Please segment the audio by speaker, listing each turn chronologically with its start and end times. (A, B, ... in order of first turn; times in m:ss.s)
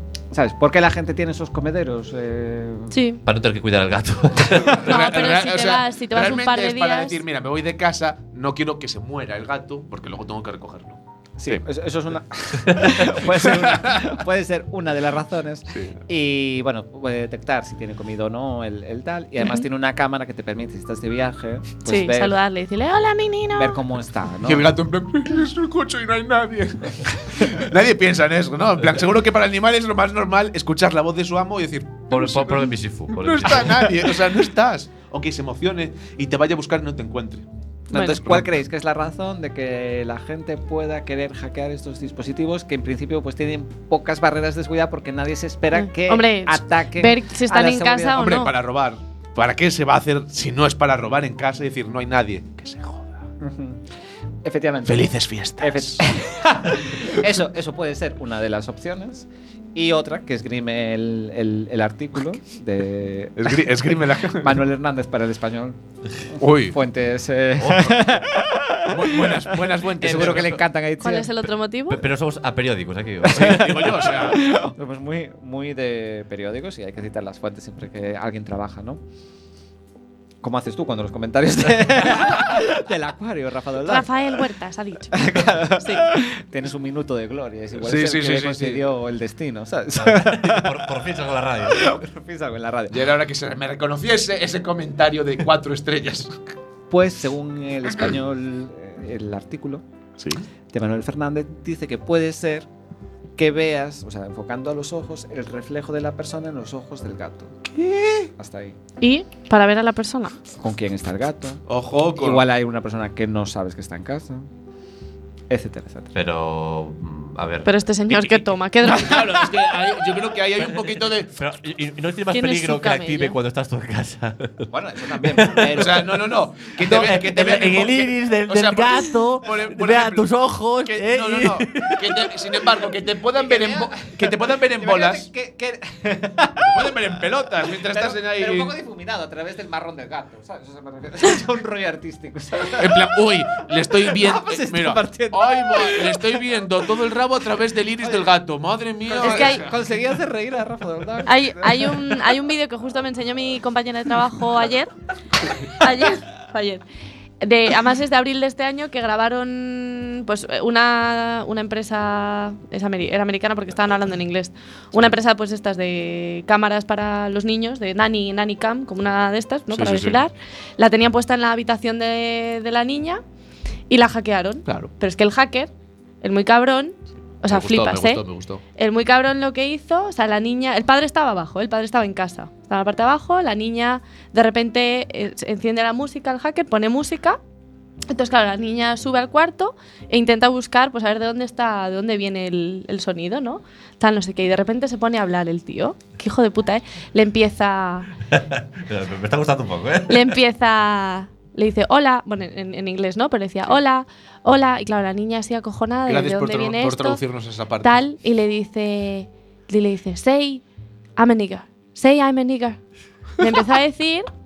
0:00.3-0:02.9 A
0:02.9-0:03.2 B
0:03.2-0:04.8 C
0:04.6-0:11.6 D
0:04.8-0:07.2 B
0:11.4-0:22.4 A
0:13.2-0:14.2 D
0:15.7-0:16.0 D
0:19.4-0:19.7 B
0:21.8-0:23.8 B
0:23.6-0:24.7 A
0:24.4-0:38.5 D
0:32.1-0:34.1 C
0:37.9-0:48.3 A
0:45.7-0:48.5 B
0:48.2-0:53.2 D
0:53.4-0:53.8 A
0:54.4-1:05.8 A
0:54.9-0:56.0 D
1:03.4-1:04.6 D
1:06.4-1:06.8 D
1:06.4-1:11.3 A
1:07.6-1:08.2 C
1:08.9-1:10.7 D
1:11.0-1:12.0 B
1:11.9-1:14.0 C
1:13.2-1:19.0 A
1:13.3-1:14.4 D
1:20.4-1:24.3 A
1:23.8-1:26.1 B
1:25.1-1:30.9 A
1:27.8-1:28.8 D
1:29.9-1:32.0 C
1:31.6-1:33.1 A
1:32.9-1:36.4 D
1:36.9-1:39.8 A
1:40.2-1:40.4 D
1:40.7-1:42.7 A
1:43.4-1:47.6 A
1:47.7-1:48.3 D
1:48.4-1:48.8 A
1:49.0-1:50.4 B
1:50.6-1:51.6 A
1:51.7-1:52.5 D
1:52.1-1:54.5 A
1:55.5-1:56.1 A
1:56.1-1:58.5 C
1:57.6-1:59.4 B
1:58.8-2:01.3 D
2:00.6-2:12.7 C
2:02.3-2:03.4 B
2:04.7-2:06.2 A
2:05.7-2:10.3 D
2:10.8-2:15.2 D
2:13.4-2:17.0 A
2:16.6-2:18.8 D
2:17.7-2:23.1 A
2:22.8-2:29.7 D
2:23.8-2:26.5 A
2:28.0-2:28.4 A
2:29.1-2:32.4 A
2:29.2-2:29.6 B
2:31.2-2:34.9 B
2:35.6-2:36.8 B
2:37.4-2:53.2 B
2:49.7-2:50.2 D
2:53.9-2:55.7 B
2:54.7-2:54.9 D
2:56.2-2:58.2 B
2:57.4-2:58.6 D
2:58.8-3:07.4 B
3:08.1-3:18.1 B
3:18.3-3:20.4 C
3:20.1-3:27.2 B
3:26.1-3:28.0 D
3:27.8-3:30.6 B
3:31.2-3:32.8 B
3:33.4-3:34.3 B